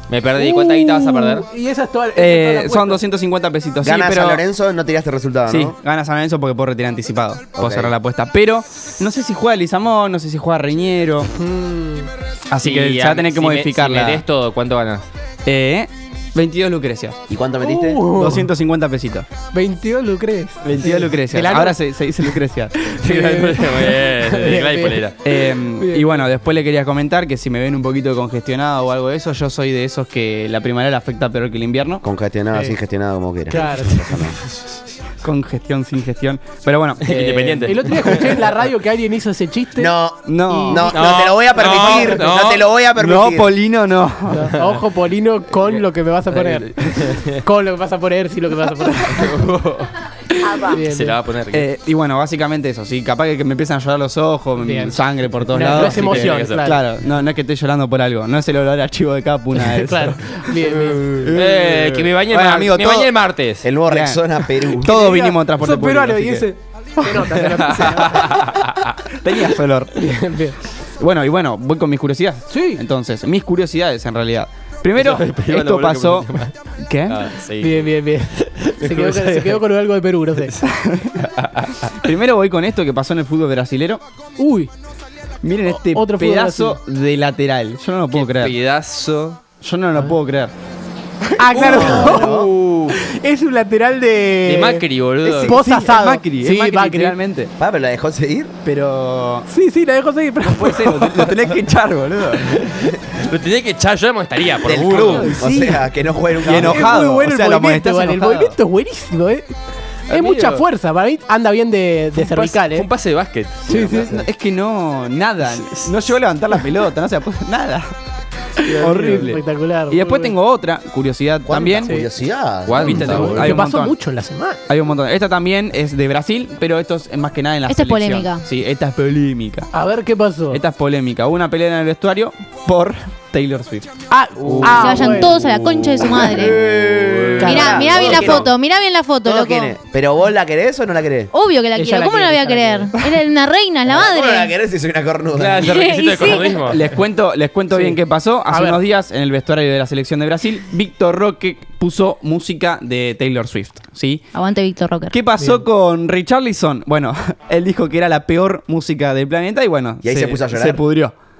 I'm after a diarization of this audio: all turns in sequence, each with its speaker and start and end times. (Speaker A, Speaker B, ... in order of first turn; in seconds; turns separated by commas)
Speaker A: 0.1-1.5, Speaker B: 0.4-3.0, Speaker C: 2.2-4.4, Speaker D: 3.8-5.8, Speaker C: 5.5-11.3, Speaker D: 7.6-7.9, Speaker B: 11.3-12.1, Speaker C: 12.5-14.2, Speaker A: 12.6-15.1, Speaker C: 15.4-17.2, Speaker D: 17.3-18.1, Speaker B: 17.6-18.5, Speaker C: 18.1-19.3, Speaker B: 19.5-25.0, Speaker C: 20.6-22.7, Speaker A: 23.0-25.2, Speaker C: 25.2-32.0, Speaker B: 25.8-26.3, Speaker D: 32.0-34.4, Speaker B: 33.5-34.0, Speaker C: 35.2-38.3, Speaker A: 37.0-38.2, Speaker B: 37.7-39.9, Speaker D: 39.8-43.5, Speaker C: 40.3-40.9, Speaker B: 40.5-40.9, Speaker A: 40.9-42.7, Speaker B: 41.6-42.2, Speaker C: 43.0-44.5, Speaker B: 44.3-49.3, Speaker A: 45.6-47.4, Speaker A: 49.1-49.9, Speaker B: 50.5-51.2, Speaker A: 50.7-51.7, Speaker C: 51.5-63.1, Speaker B: 54.6-55.0, Speaker B: 55.5-56.8, Speaker A: 55.7-56.6, Speaker B: 59.6-61.3, Speaker A: 61.3-63.7, Speaker D: 63.6-65.1, Speaker C: 63.9-66.5, Speaker B: 64.8-68.5, Speaker C: 67.0-67.3, Speaker A: 67.4-68.9, Speaker C: 69.1-69.9, Speaker B: 70.0-70.6, Speaker C: 71.0-77.2, Speaker B: 72.5-72.8, Speaker A: 75.0-76.5, Speaker A: 77.1-79.6, Speaker B: 77.6-80.5, Speaker C: 80.6-81.3, Speaker A: 81.2-81.9, Speaker C: 82.0-84.0, Speaker B: 84.4-84.7, Speaker C: 85.4-88.5, Speaker B: 85.7-86.8, Speaker A: 88.1-89.4, Speaker C: 89.6-90.5, Speaker B: 91.4-92.4, Speaker D: 91.5-92.5, Speaker A: 91.6-93.0, Speaker B: 92.9-94.8, Speaker A: 94.5-95.6, Speaker C: 95.2-97.5, Speaker B: 95.4-97.2, Speaker D: 97.6-98.5, Speaker C: 98.7-99.5, Speaker B: 99.5-101.0, Speaker C: 100.6-102.6, Speaker A: 102.6-105.3, Speaker D: 104.7-107.0, Speaker C: 104.9-105.8, Speaker C: 106.4-108.5, Speaker B: 106.5-109.5, Speaker A: 110.1-110.6, Speaker B: 110.1-112.9, Speaker A: 112.2-113.7, Speaker B: 113.7-114.2, Speaker D: 113.7-114.2, Speaker C: 113.9-117.9, Speaker A: 115.5-115.9, Speaker C: 118.6-119.4, Speaker B: 118.6-120.3, Speaker C: 119.9-122.0, Speaker D: 121.5-123.3, Speaker A: 122.7-123.5, Speaker C: 122.8-123.9, Speaker B: 122.9-124.6, Speaker C: 124.7-129.7, Speaker E: 127.7-128.5, Speaker B: 129.7-130.6, Speaker C: 130.5-133.9, Speaker B: 134.1-135.3, Speaker A: 134.4-138.4, Speaker E: 134.6-136.6, Speaker D: 136.3-138.5, Speaker B: 137.4-138.3, Speaker E: 137.4-139.8, Speaker D: 139.2-141.3, Speaker E: 141.3-144.6, Speaker B: 141.8-142.9, Speaker D: 143.9-145.7, Speaker A: 145.3-146.8, Speaker E: 145.6-146.6, Speaker C: 146.6-154.3, Speaker B: 147.7-148.8, Speaker E: 154.3-155.2, Speaker C: 155.1-161.1, Speaker B: 155.4-155.7, Speaker D: 160.0-160.8